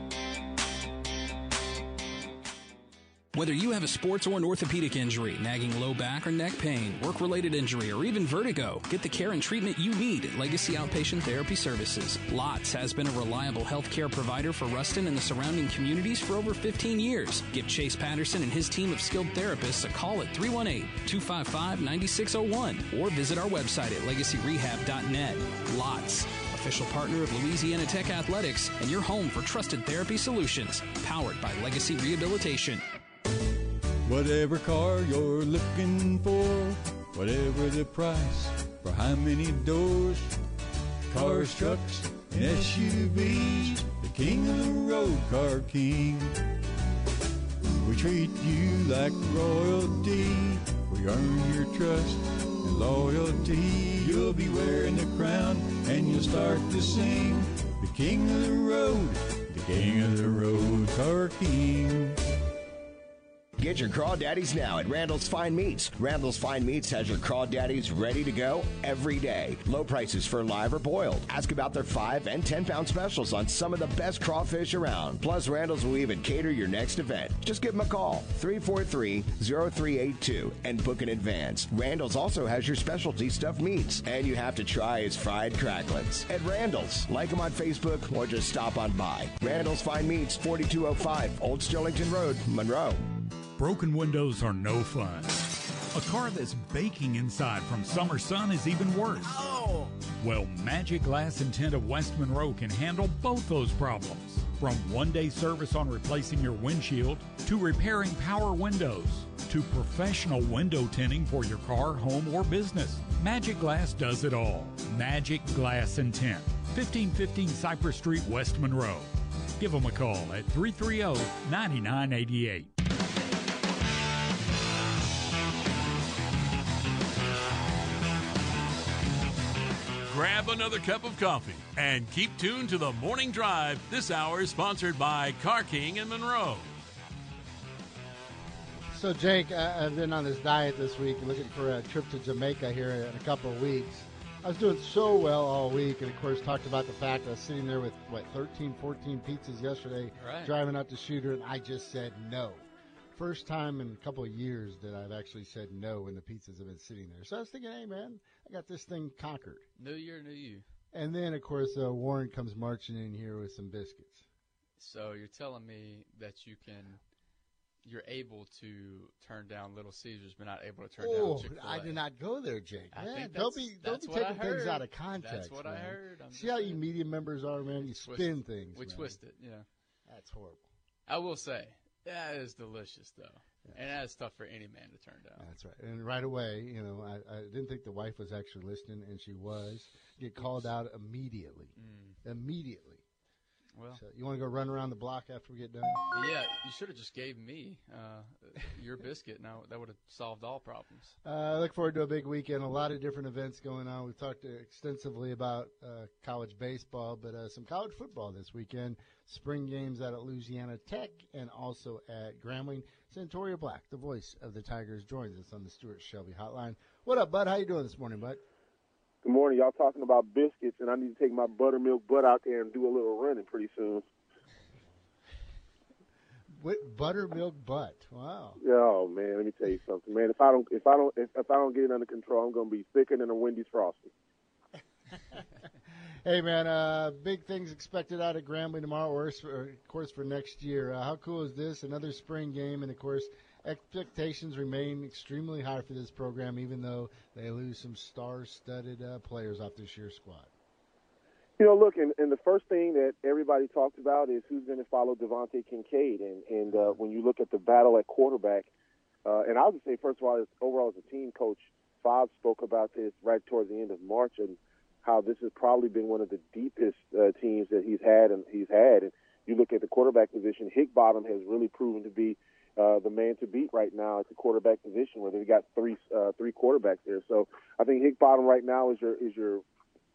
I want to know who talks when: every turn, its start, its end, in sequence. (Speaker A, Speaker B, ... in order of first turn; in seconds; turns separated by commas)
Speaker A: 3.3-32.8, Speaker B: 34.0-40.4, Speaker B: 41.1-46.4, Speaker B: 47.8-62.2, Speaker C: 63.6-93.0, Speaker D: 93.6-95.3, Speaker D: 95.9-99.4, Speaker D: 100.2-122.7, Speaker E: 130.1-136.7, Speaker F: 138.9-159.7, Speaker G: 150.2-150.5, Speaker G: 159.8-160.7, Speaker F: 160.9-164.2, Speaker G: 164.8-167.0, Speaker G: 167.8-172.0, Speaker F: 171.0-179.2, Speaker G: 172.9-176.8, Speaker G: 177.8-179.7, Speaker F: 180.1-180.7, Speaker G: 181.1-185.5, Speaker F: 185.4-193.0, Speaker G: 190.4-190.7, Speaker G: 191.8-192.2, Speaker G: 193.7-194.0, Speaker F: 193.9-196.0, Speaker G: 196.1-201.2, Speaker F: 201.2-218.4, Speaker H: 219.2-224.0, Speaker F: 226.5-228.6, Speaker H: 228.6-234.1, Speaker F: 236.2-250.5, Speaker H: 251.6-258.7, Speaker F: 256.7-257.0, Speaker H: 259.2-279.6